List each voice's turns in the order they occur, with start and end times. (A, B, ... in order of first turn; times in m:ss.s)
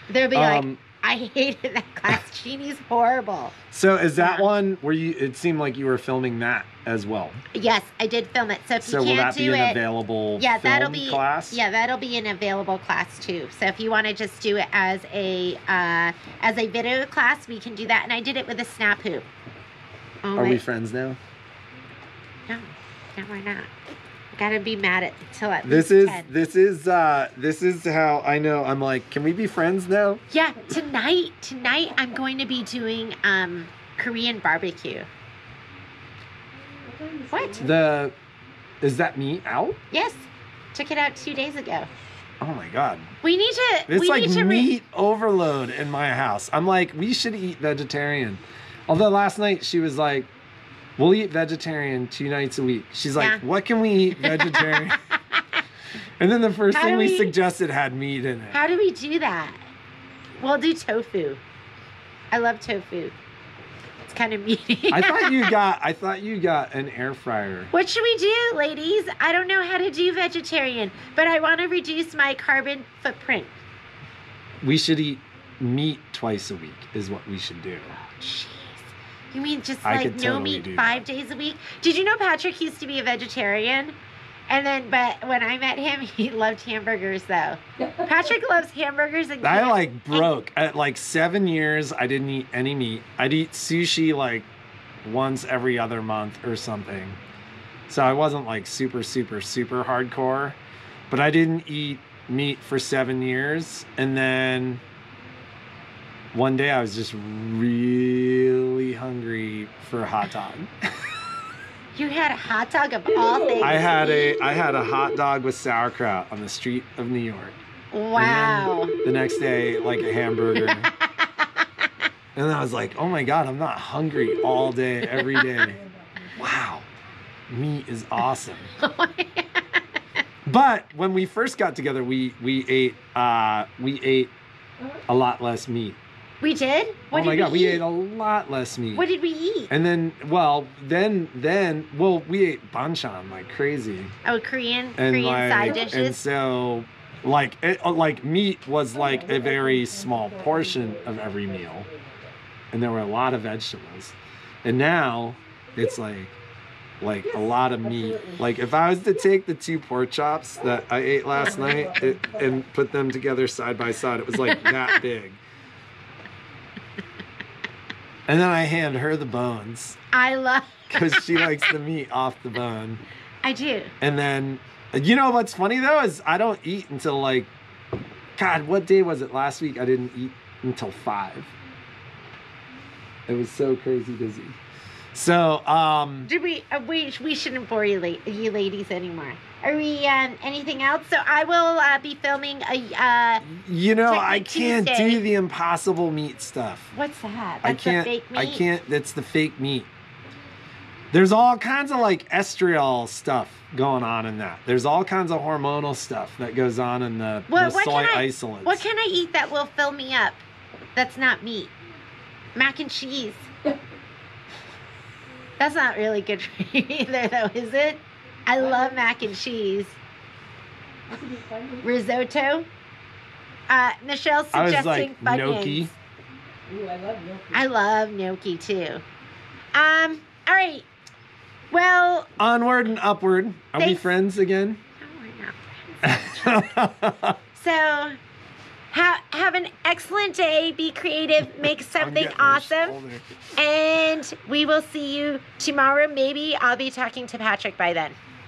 0:00.1-0:03.6 A
0:00.3-0:00.8 B
0:03.7-0:07.4 B
0:04.2-0:04.5 A
0:07.5-0:09.8 A
0:08.8-0:11.6 B
0:10.4-0:19.3 A
0:20.2-0:20.6 A
0:20.3-0:21.2 B
0:22.5-0:23.7 A
0:24.4-0:26.3 A
0:25.6-0:30.2 B
0:30.3-0:35.1 A
0:36.8-0:37.8 C
0:37.3-0:37.6 A
0:37.6-0:38.1 B
0:38.8-0:39.8 B
0:39.9-0:41.9 A
0:42.4-0:43.1 B
0:43.2-0:44.7 A
0:43.9-0:50.3 B
0:51.0-0:55.0 B
0:53.2-0:53.4 A
0:54.2-0:55.6 A
0:56.2-0:58.6 B
0:56.7-0:57.3 A
0:58.5-0:59.6 A
1:00.4-1:01.4 A
1:02.3-1:03.1 A
1:04.0-1:05.5 A
1:04.9-1:07.7 B
1:07.7-1:13.5 A
1:14.6-1:18.0 B
1:18.0-1:23.9 A
1:19.8-1:21.0 B
1:24.5-1:30.3 A
1:29.4-1:34.5 B
1:35.0-1:37.2 B
1:37.9-1:40.6 B
1:41.1-1:44.8 B
1:46.3-1:50.7 B
1:51.9-1:54.3 A
1:53.2-1:54.4 C
1:53.6-1:57.6 B
1:57.9-1:58.9 A
1:58.2-2:00.9 B
2:00.5-2:01.9 A
2:02.3-2:05.8 B
2:05.1-2:05.6 A
2:05.6-2:06.4 C
2:06.3-2:06.8 B
2:07.5-2:08.7 B
2:08.8-2:09.8 A
2:10.4-2:14.3 B
2:15.1-2:16.0 B
2:16.4-2:17.8 A
2:17.1-2:19.0 B
2:18.9-2:19.7 A
2:19.7-2:24.1 B
2:24.2-2:26.2 A
2:25.0-2:31.9 B
2:28.9-2:32.3 C
2:32.7-2:36.4 B
2:37.0-2:45.4 B
2:37.2-2:38.5 C
2:40.7-2:42.6 C
2:48.3-2:50.0 B
2:50.1-2:51.6 A
2:50.9-2:53.0 B
2:53.4-2:53.9 A
2:54.0-2:57.5 B
2:58.4-3:01.5 B
3:03.3-3:04.6 B
3:05.1-3:06.3 B
3:06.3-3:13.4 A
3:13.4-3:16.9 B
3:14.0-3:15.2 A
3:16.9-3:18.6 A
3:17.6-3:19.9 B
3:21.1-3:28.8 B
3:27.5-3:30.4 A
3:30.9-3:31.7 A
3:32.5-3:33.5 A
3:35.6-3:40.0 A
3:38.6-3:39.0 C
3:41.1-3:41.9 C
3:41.8-3:42.7 A
3:43.7-3:45.9 A
3:44.5-3:45.9 B
3:46.7-3:47.7 C
3:47.5-3:49.0 A
3:49.7-3:50.8 A
3:51.7-3:52.3 A
3:52.4-3:54.8 B
3:53.8-3:54.1 A
3:55.0-3:56.4 A
3:56.0-3:57.4 B
3:57.5-3:58.2 A
3:58.9-4:03.0 A
4:02.0-4:03.2 B
4:03.5-4:08.2 A